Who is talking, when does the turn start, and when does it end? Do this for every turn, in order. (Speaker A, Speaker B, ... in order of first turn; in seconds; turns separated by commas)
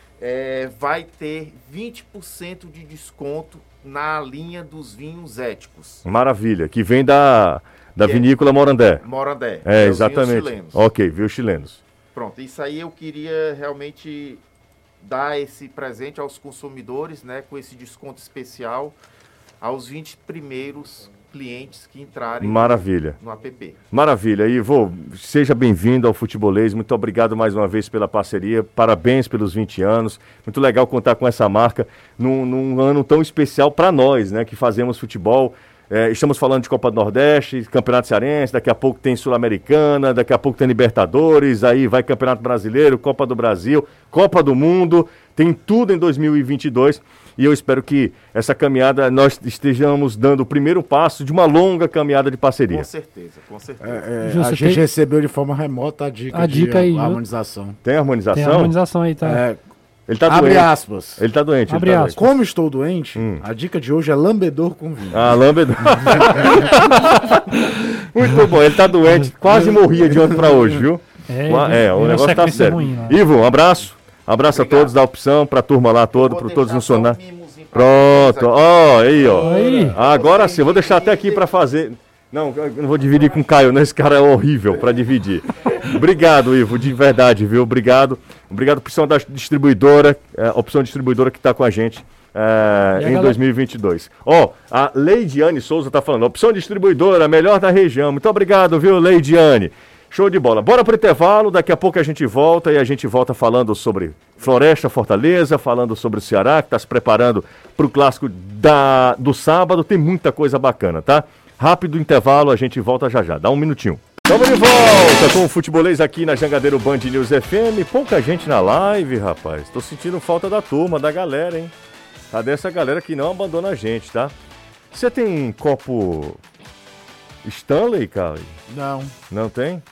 Speaker A: 0.2-6.0, Speaker B: 6.0-9.0, Speaker A: 8.0-8.3, Speaker A: 9.0-10.9, Speaker B: 9.6-11.8, Speaker A: 12.1-14.4, Speaker A: 15.0-19.0, Speaker A: 19.6-23.8, Speaker B: 22.4-23.2, Speaker B: 23.9-52.9, Speaker A: 52.7-54.1, Speaker C: 53.8-57.8, Speaker D: 54.2-54.8, Speaker D: 56.3-57.2, Speaker B: 57.8-58.7, Speaker D: 58.3-59.4, Speaker C: 59.2-59.6, Speaker B: 60.1-62.2, Speaker C: 60.2-61.2, Speaker D: 61.7-62.3, Speaker C: 62.2-65.4, Speaker B: 63.2-63.4, Speaker B: 65.1-77.2, Speaker C: 66.0-66.7, Speaker C: 69.4-70.9, Speaker D: 71.3-73.2, Speaker A: 74.5-74.9, Speaker A: 76.1-81.5, Speaker B: 77.7-121.7, Speaker D: 79.4-80.0, Speaker D: 93.0-93.4, Speaker B: 122.3-124.3, Speaker B: 124.9-126.4, Speaker B: 127.5-128.6, Speaker C: 128.7-129.2, Speaker B: 129.3-129.8